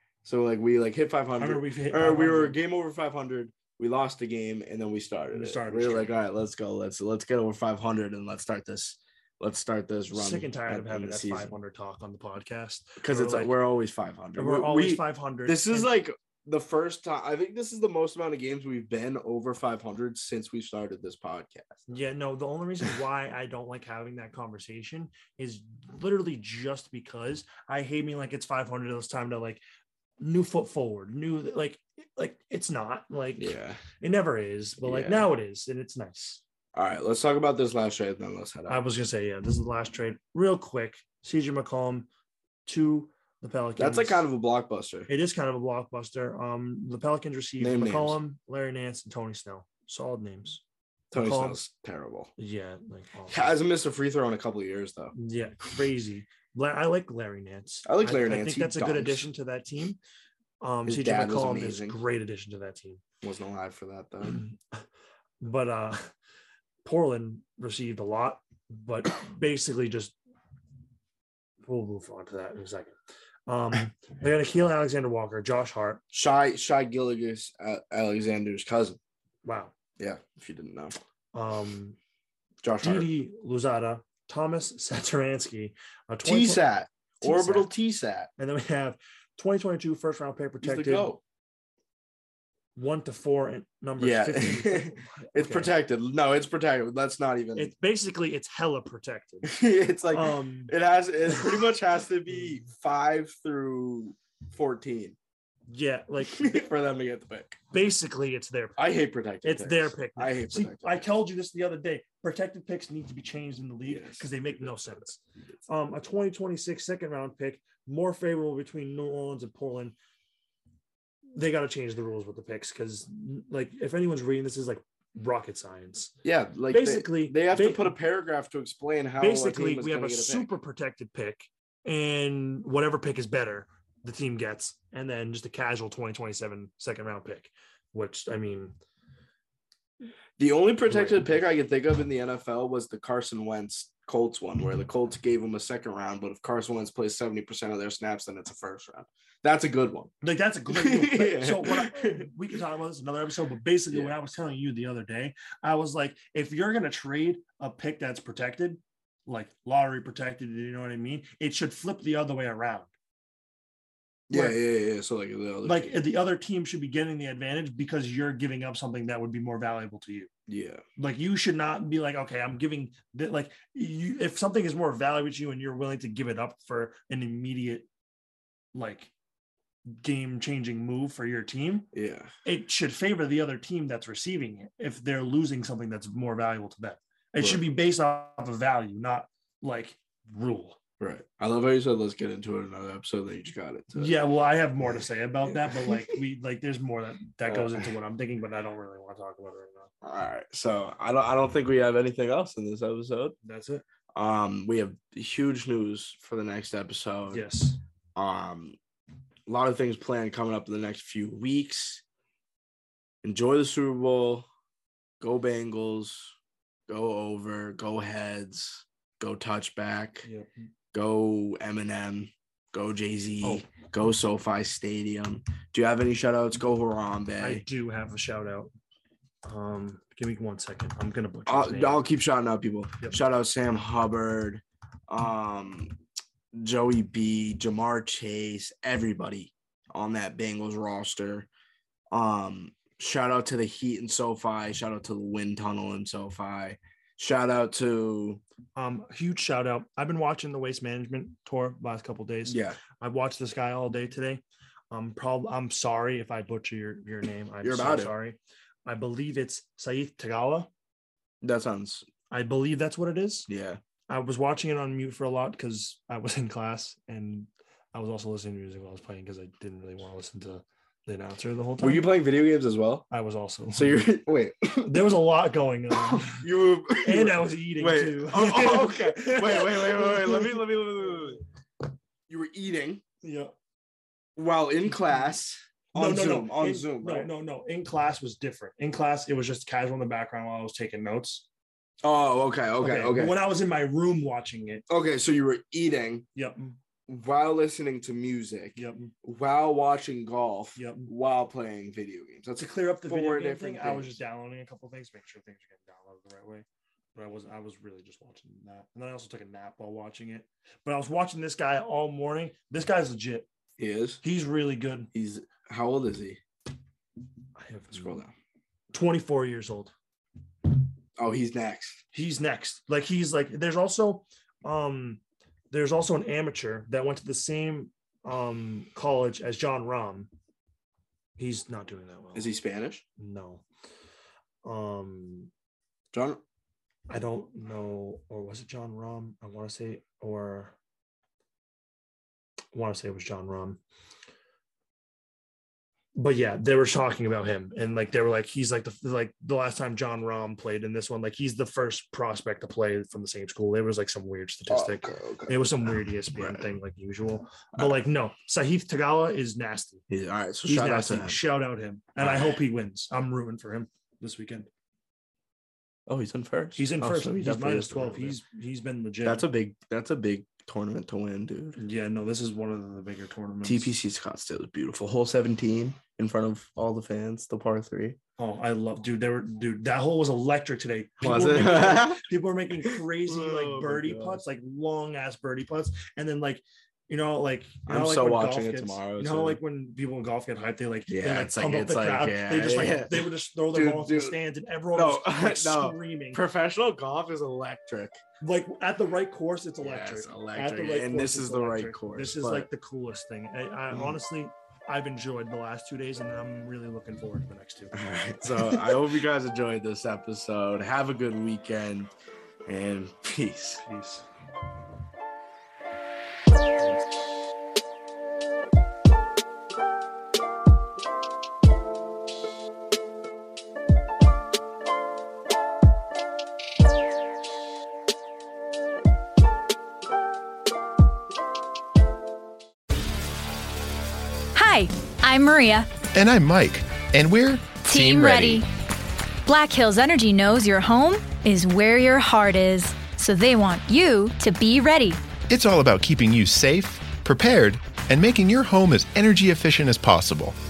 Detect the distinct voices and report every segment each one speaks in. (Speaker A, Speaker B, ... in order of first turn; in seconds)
Speaker A: 0.2-11.6, 13.0-21.8, 33.4-33.8, 34.8-35.3, 36.8-38.8, 43.8-45.1, 47.6-48.2, 51.1-52.3, 53.3-55.1, 57.9-59.3, 60.9-62.0, 63.2-64.4, 76.1-79.0, 80.0-81.0, 82.6-83.1, 86.2-88.3, 90.6-91.2, 94.0-97.7, 99.4-105.2, 106.2-107.6, 108.8-111.1, 113.9-115.0, 126.2-130.5, 140.4-150.1, 150.7-152.3, 164.3-166.0, 170.5-170.8, 181.9-182.3, 187.4-187.6, 191.0-194.2, 195.5-196.2, 197.5-197.9, 200.0-203.3, 204.2-207.4, 208.2-208.8, 209.5-212.0, 213.2-214.5, 215.2-216.3, 216.9-220.3, 220.9-227.6, 231.5-236.0, 236.5-241.5, 242.1-248.4, 252.4-252.8, 257.6-258.1, 261.4-262.1, 263.5-263.8, 271.8-273.1, 273.7-275.0, 275.9-281.4, 282.3-283.0, 284.4-287.3, 292.0-293.4, 294.9-296.3, 297.1-304.2, 313.8-314.2, 315.1-316.4, 317.9-318.3, 321.2-322.0, 332.4-333.0, 336.1-336.4, 354.7-356.7, 357.8-358.0, 360.1-361.4, 362.2-362.6, 366.1-368.4, 369.2-371.8, 373.6-378.2, 381.2-382.2, 382.8-384.4, 387.9-389.6, 391.1-394.4, 394.9-398.2, 399.8-402.7, 403.9-404.2, 407.9-412.1, 412.7-413.8
Speaker B: 1.4-2.6, 5.3-6.1, 10.1-13.5, 14.4-15.9, 21.9-29.6, 30.2-36.4, 38.7-42.1, 42.7-44.3, 45.1-50.6, 51.1-51.6, 52.4-53.6, 55.1-60.0, 60.6-63.0, 64.2-64.8, 65.4-66.1, 66.8-70.2, 71.7-72.9, 73.5-76.0, 79.5-79.7, 81.3-82.0, 82.8-86.6, 87.2-87.7, 88.4-91.1, 92.8-95.7, 97.6-99.5, 100.1-100.7, 105.7-106.6, 107.7-108.8, 109.4-120.0, 121.3-126.1, 126.7-128.0, 129.2-138.8, 140.9-141.3, 150.2-162.9, 165.6-170.3, 171.0-177.9, 178.7-179.1, 179.9-181.9, 182.4-190.8, 193.9-199.9, 203.4-203.8, 207.3-207.8, 220.2-220.5, 227.4-228.7, 229.4-232.0, 248.8-260.7, 262.3-263.5, 264.1-272.1, 273.1-274.1, 274.8-276.4, 277.0-280.6, 283.2-283.5, 285.9-291.5, 292.8-294.9, 296.4-296.8, 298.8-299.1, 300.8-301.1, 302.6-313.5, 314.2-315.1, 317.6-318.2, 318.9-319.9, 322.1-325.2, 325.7-330.3, 331.4-332.5, 333.2-333.6, 334.6-335.5, 337.1-340.7, 342.7-343.8, 346.2-360.0, 360.7-364.7, 366.8-369.4, 371.8-373.9, 378.4-396.4, 398.4-407.9, 413.8-414.3
Speaker C: 434.6-435.9, 437.8-438.7, 439.5-445.2
Speaker D: 436.0-438.6, 445.5-450.6